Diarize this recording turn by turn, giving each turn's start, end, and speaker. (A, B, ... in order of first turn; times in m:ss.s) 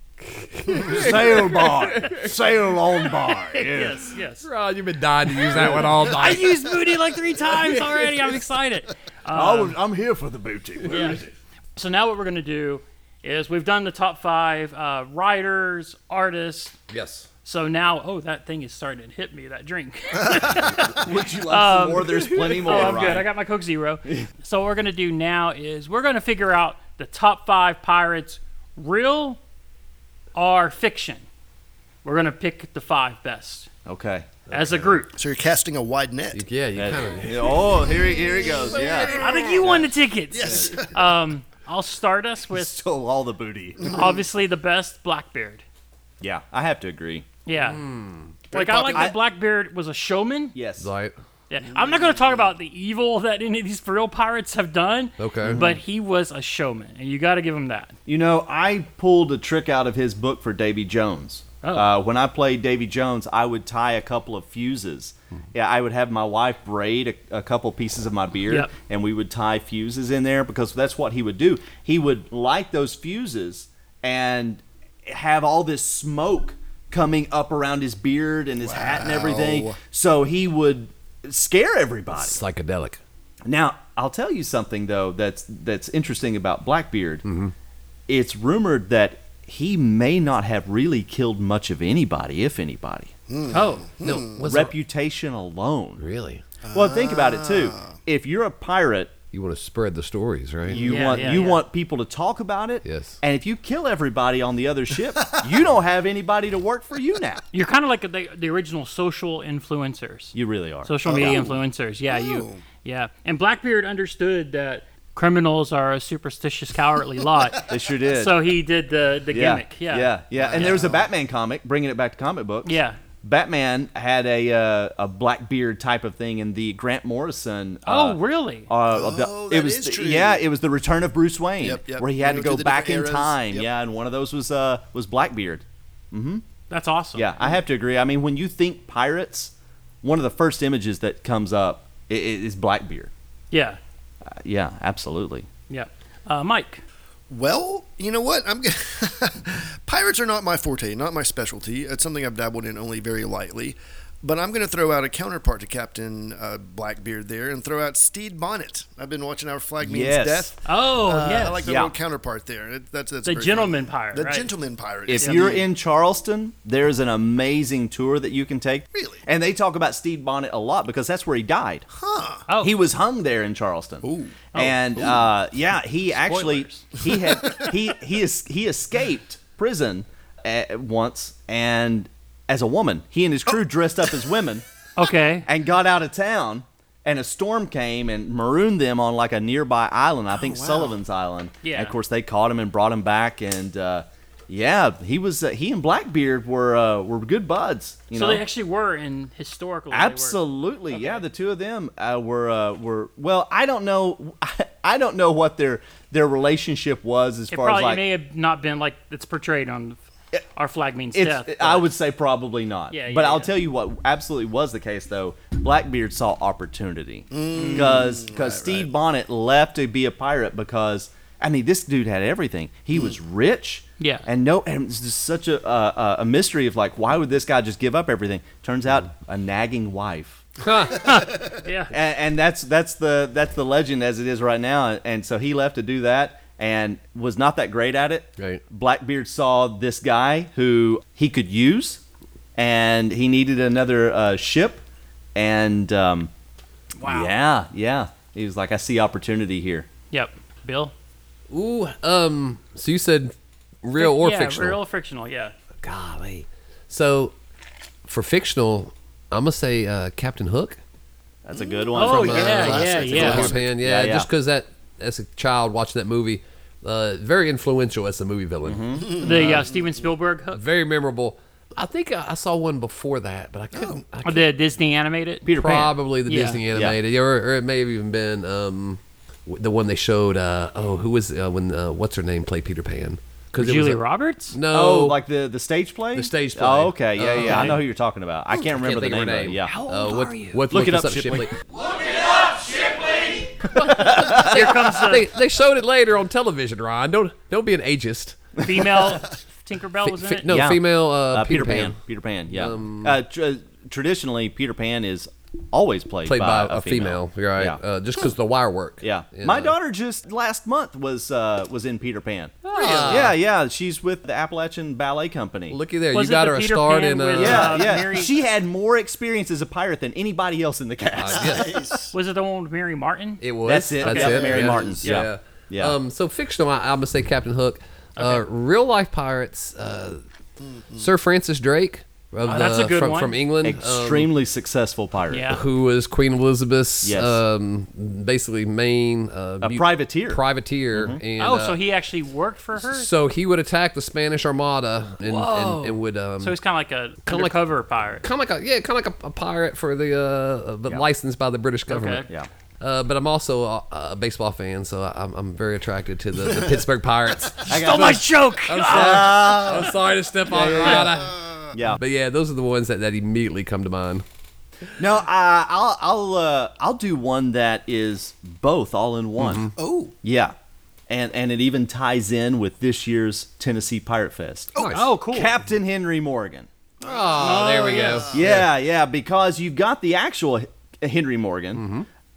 0:00.3-0:02.4 A
0:01.0-0:03.9 B
0:01.0-0:04.0 C
0:03.4-0:04.5 D
0:04.4-0:06.7 A
0:06.0-0:09.8 D
0:07.7-0:08.2 A
0:09.3-0:11.3 B
0:10.9-0:11.2 D
0:11.8-0:16.7 D
0:16.9-0:17.3 A
0:17.4-0:29.4 D
0:20.9-0:23.3 C
0:22.4-0:22.8 A
0:30.3-0:31.2 D
0:32.0-0:33.7 D
0:33.8-0:34.3 C
0:34.5-0:35.0 A
0:34.5-0:35.2 D
0:35.2-0:36.4 E
0:36.3-0:37.7 A
0:36.7-0:39.8 C
0:38.4-0:39.7 E
0:39.1-0:42.7 D
0:40.3-0:41.0 E
0:40.4-0:40.7 C
0:42.5-0:44.0 C
0:43.8-0:45.6 D
0:46.2-0:47.3 C
0:47.4-0:47.8 D
0:47.6-0:48.3 A
0:48.5-0:50.5 D
0:48.5-0:49.2 C
0:48.5-0:49.0 E
0:50.5-0:50.9 C
0:50.8-0:51.1 A
0:51.5-0:57.9 D
0:51.7-0:52.4 E
0:55.2-0:55.6 A
0:55.4-0:55.8 C
0:58.0-1:22.4 C
1:01.6-1:01.9 D
1:18.6-1:19.8 E
1:22.2-1:23.0 A
1:23.4-1:27.2 C
1:27.2-1:27.5 A
1:28.1-1:33.1 C
1:33.3-1:34.4 E
1:33.5-1:33.9 D
1:34.0-1:34.7 A
1:34.4-1:36.0 C
1:36.0-1:36.4 A
1:36.7-1:38.0 E
1:36.7-1:39.1 C
1:39.3-1:40.9 A
1:40.7-1:47.4 C
1:40.8-1:41.6 D
1:40.9-1:41.3 E
1:42.8-1:43.2 A
1:47.5-2:00.8 D
1:50.3-1:51.4 C
1:51.1-1:51.6 E
1:52.1-1:52.6 E
1:57.7-1:58.4 C
1:59.3-2:16.4 C
2:00.3-2:01.1 E
2:02.6-2:03.0 D
2:07.8-2:08.7 D
2:08.9-2:10.4 E
2:11.6-2:13.7 E
2:16.7-2:17.3 D
2:17.1-2:23.1 C
2:23.5-2:23.8 D
2:24.3-2:25.5 C
2:25.7-2:26.8 D
2:27.3-2:45.7 E
2:39.8-2:40.5 C
2:40.6-2:41.7 D
2:41.6-2:41.9 C
2:43.2-2:44.5 D
2:45.1-2:51.9 C
2:45.2-2:45.5 D
2:48.9-2:49.2 E
2:52.0-2:52.4 E
2:52.5-2:52.8 D
2:52.6-3:04.6 C
2:54.0-2:55.2 E
2:56.2-2:56.8 D
2:57.0-2:57.7 E
3:05.0-3:05.5 D
3:05.4-3:18.4 C
3:10.4-3:11.0 E
3:11.6-3:11.9 D
3:18.1-3:21.2 D
3:19.9-3:28.0 C
3:27.5-3:30.0 D
3:30.5-3:31.9 D
3:31.1-3:50.5 C
3:32.9-3:33.5 D
3:37.3-3:38.9 E
3:37.5-3:38.0 D
3:44.0-3:44.2 D
3:50.6-3:51.2 A
3:50.9-3:51.9 D
3:51.9-4:02.0 C
4:02.6-4:04.8 C
4:05.3-4:06.3 C
4:07.0-4:07.3 D
4:07.0-4:09.9 C
4:10.1-4:10.9 D
4:11.5-4:14.8 A
4:14.0-4:15.5 D
4:15.8-4:17.3 A
4:18.1-4:20.8 A
4:21.4-4:24.3 C
4:21.9-4:23.6 D
4:22.0-4:29.7 A
4:28.6-4:29.2 C
4:29.2-4:30.6 D
4:29.2-4:29.6 E
4:30.5-4:34.5 A
4:33.7-4:34.0 E
4:34.2-4:35.5 D
4:35.4-4:35.9 C
4:35.6-4:45.2 A
4:36.3-4:36.6 D
4:36.7-4:37.0 C
4:43.6-4:44.6 D
4:44.7-4:49.8 C
4:46.1-4:47.8 A
4:47.4-4:47.8 D
4:48.6-4:51.6 A
4:49.6-4:50.6 D
4:50.7-4:51.5 C
4:53.6-4:58.5 A
4:53.7-4:54.8 C
4:54.2-4:55.3 D
4:58.6-5:00.5 D
5:00.0-5:02.0 A
5:00.4-5:07.8 C
5:02.5-5:03.2 A
5:06.2-5:09.7 A
5:09.0-5:15.8 C
5:12.6-5:13.3 A
5:12.8-5:13.2 E
5:15.7-5:17.9 A
5:16.1-5:18.3 D
5:17.3-5:21.9 C
5:21.2-5:21.8 A
5:21.3-5:22.1 E
5:22.1-5:23.4 D
5:23.4-5:30.2 A
5:23.6-5:26.0 C
5:24.0-5:25.2 D
5:24.4-5:24.9 E
5:28.2-5:28.4 D
5:30.8-5:31.1 E
5:31.0-5:34.3 A
5:32.4-5:33.4 D
5:33.6-5:35.5 C
5:35.3-5:35.6 D
5:35.5-5:41.8 A
5:37.0-5:37.4 C
5:39.6-5:40.4 C
5:40.9-5:41.2 C
5:41.4-5:43.1 D
5:42.8-5:46.6 A
5:45.2-5:48.2 D
5:47.2-5:47.6 A
5:48.2-5:52.3 A
5:51.9-5:52.3 D
5:52.8-6:04.2 A
5:57.6-5:58.3 C
5:57.6-5:59.6 D
5:58.8-6:00.0 C
6:00.5-6:02.0 C
6:05.0-6:09.7 C
6:09.4-6:09.7 A
6:09.8-6:10.1 E
6:10.2-6:10.5 C
6:11.1-6:14.7 C
6:14.8-6:15.0 A
6:14.8-6:15.1 E
6:14.9-6:15.5 D
6:15.3-6:16.7 C
6:17.0-6:18.4 E
6:17.0-6:18.7 A
6:17.4-6:18.3 D
6:18.3-6:21.8 C
6:21.8-6:22.0 A